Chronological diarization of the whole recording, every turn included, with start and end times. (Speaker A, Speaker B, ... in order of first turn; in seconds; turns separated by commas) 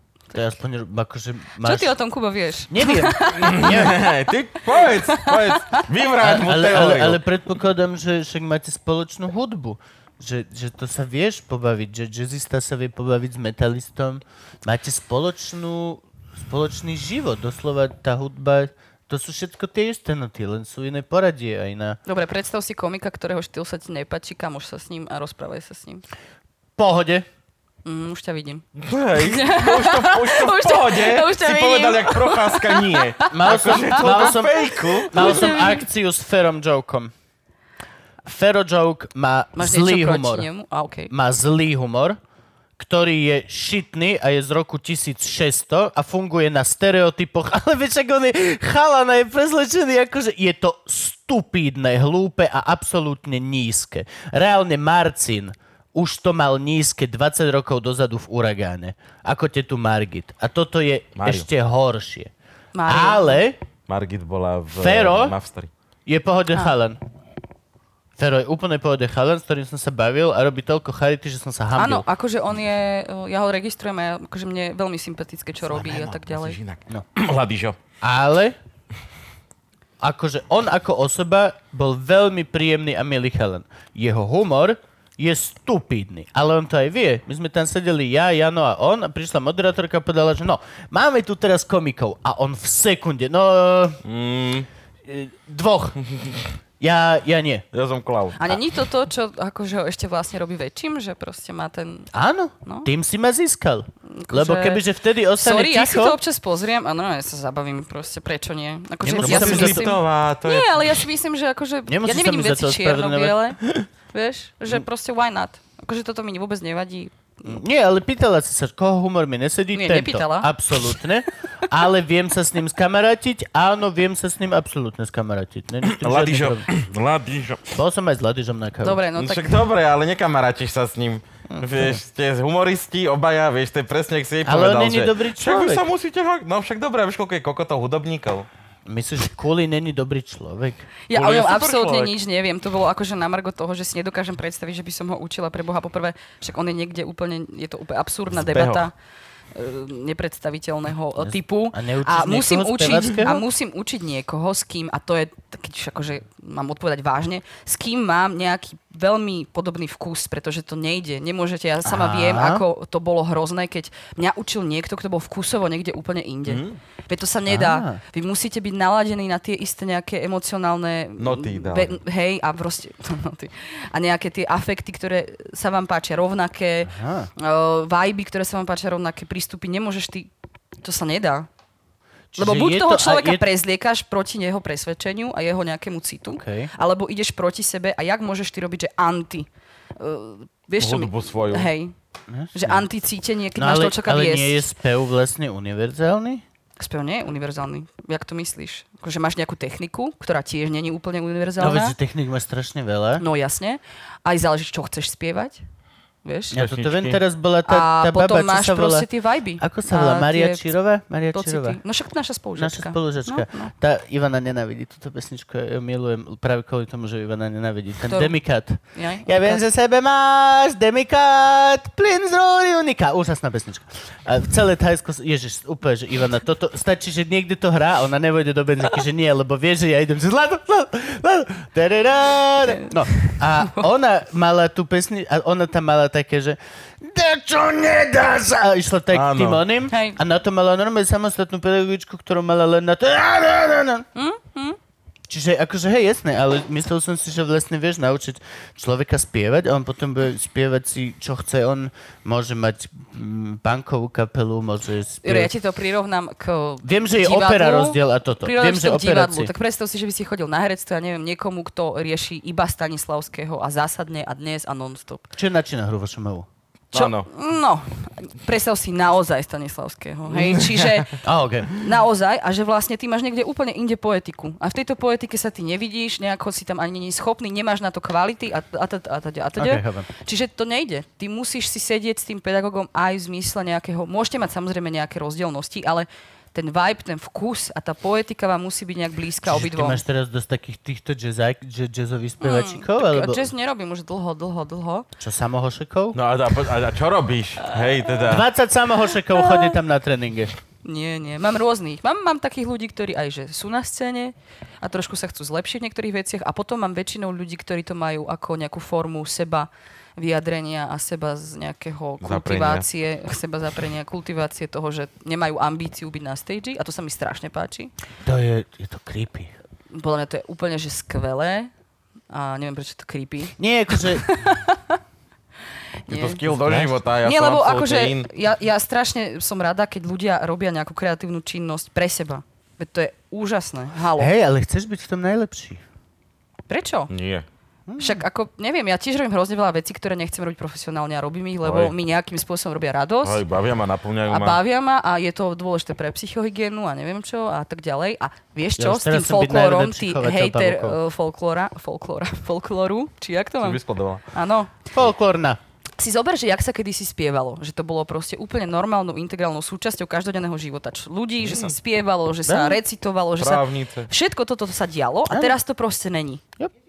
Speaker A: 0.3-1.9, Speaker B: 1.6-3.9, Speaker A: 2.7-4.0, Speaker C: 3.4-7.2, Speaker B: 4.7-5.8, Speaker A: 6.2-22.0, Speaker B: 22.1-26.0, Speaker A: 26.8-27.2, Speaker B: 27.8-35.8, Speaker C: 28.8-35.5, Speaker A: 33.3-37.1, Speaker A: 38.2-40.5, Speaker B: 39.5-41.1, Speaker A: 41.1-42.2, Speaker A: 42.8-62.3, Speaker C: 61.1-61.5, Speaker B: 62.7-63.4, Speaker A: 62.9-63.6, Speaker C: 63.9-65.7, Speaker A: 64.8-65.3, Speaker A: 66.0-67.0, Speaker A: 68.2-72.0, Speaker B: 71.7-76.6, Speaker C: 75.7-77.8, Speaker A: 78.0-78.5, Speaker A: 80.0-94.0, Speaker C: 94.0-94.7, Speaker A: 95.1-96.0, Speaker A: 96.8-97.7, Speaker C: 97.7-98.6, Speaker B: 98.3-102.1, Speaker A: 102.1-106.2, Speaker B: 104.1-104.8, Speaker B: 105.3-113.6, Speaker A: 109.0-109.9, Speaker C: 109.1-110.8, Speaker A: 111.9-113.4, Speaker B: 114.1-117.6, Speaker A: 117.4-126.7, Speaker B: 119.7-120.5, Speaker C: 125.9-127.7, Speaker A: 127.7-129.0, Speaker B: 128.8-129.6, Speaker C: 129.2-138.5, Speaker A: 131.5-132.0, Speaker A: 134.4-135.8, Speaker A: 138.8-140.9, Speaker B: 141.1-148.9, Speaker C: 141.1-142.1, Speaker C: 148.3-148.9, Speaker B: 149.5-180.3, Speaker A: 151.2-153.4, Speaker A: 161.8-162.6, Speaker C: 166.5-166.8, Speaker A: 167.5-168.0, Speaker C: 171.2-172.0, Speaker A: 176.8-177.3, Speaker B: 180.8-181.5, Speaker A: 182.3-183.4, Speaker B: 182.4-191.9, Speaker A: 186.3-186.7, Speaker C: 190.8-191.7, Speaker A: 192.3-192.8, Speaker B: 192.5-194.6, Speaker A: 193.6-196.4, Speaker B: 196.8-201.9, Speaker A: 201.6-203.2, Speaker B: 203.2-205.6, Speaker B: 206.2-206.6, Speaker A: 206.5-211.8, Speaker C: 206.5-207.2, Speaker B: 207.6-210.7, Speaker B: 211.3-213.7, Speaker A: 212.6-244.1, Speaker B: 218.1-219.6, Speaker B: 232.7-233.8, Speaker C: 239.1-239.6, Speaker B: 239.9-240.2, Speaker B: 244.1-244.8, Speaker A: 245.3-255.5, Speaker B: 255.2-265.3, Speaker A: 256.8-259.5, Speaker A: 265.4-266.5, Speaker C: 266.9-267.3, Speaker B: 266.9-271.2, Speaker C: 270.3-271.1, Speaker A: 271.2-271.8, Speaker B: 271.7-290.0, Speaker A: 279.6-280.1, Speaker A: 289.4-293.5, Speaker B: 292.4-295.1, Speaker A: 295.2-296.2, Speaker C: 296.1-298.5, Speaker B: 297.7-298.3, Speaker A: 298.2-300.5, Speaker B: 299.3-299.8, Speaker B: 300.8-317.9, Speaker C: 312.2-312.8, Speaker A: 318.2-319.5, Speaker B: 319.9-321.7, Speaker B: 322.3-325.0, Speaker A: 323.6-324.3, Speaker B: 326.1-326.4, Speaker C: 326.1-328.3, Speaker A: 326.5-326.9, Speaker B: 327.2-334.3, Speaker A: 334.2-335.8, Speaker B: 336.7-337.1, Speaker C: 337.1-337.4, Speaker A: 337.9-338.2, Speaker B: 338.0-343.4, Speaker C: 341.6-341.9, Speaker C: 343.2-344.6, Speaker B: 344.3-353.8, Speaker A: 348.8-351.0, Speaker C: 353.6-354.2, Speaker B: 354.3-354.7, Speaker A: 354.9-355.6, Speaker B: 356.0-366.4, Speaker C: 361.4-361.7, Speaker A: 362.4-362.8, Speaker C: 363.4-364.1, Speaker A: 365.3-365.5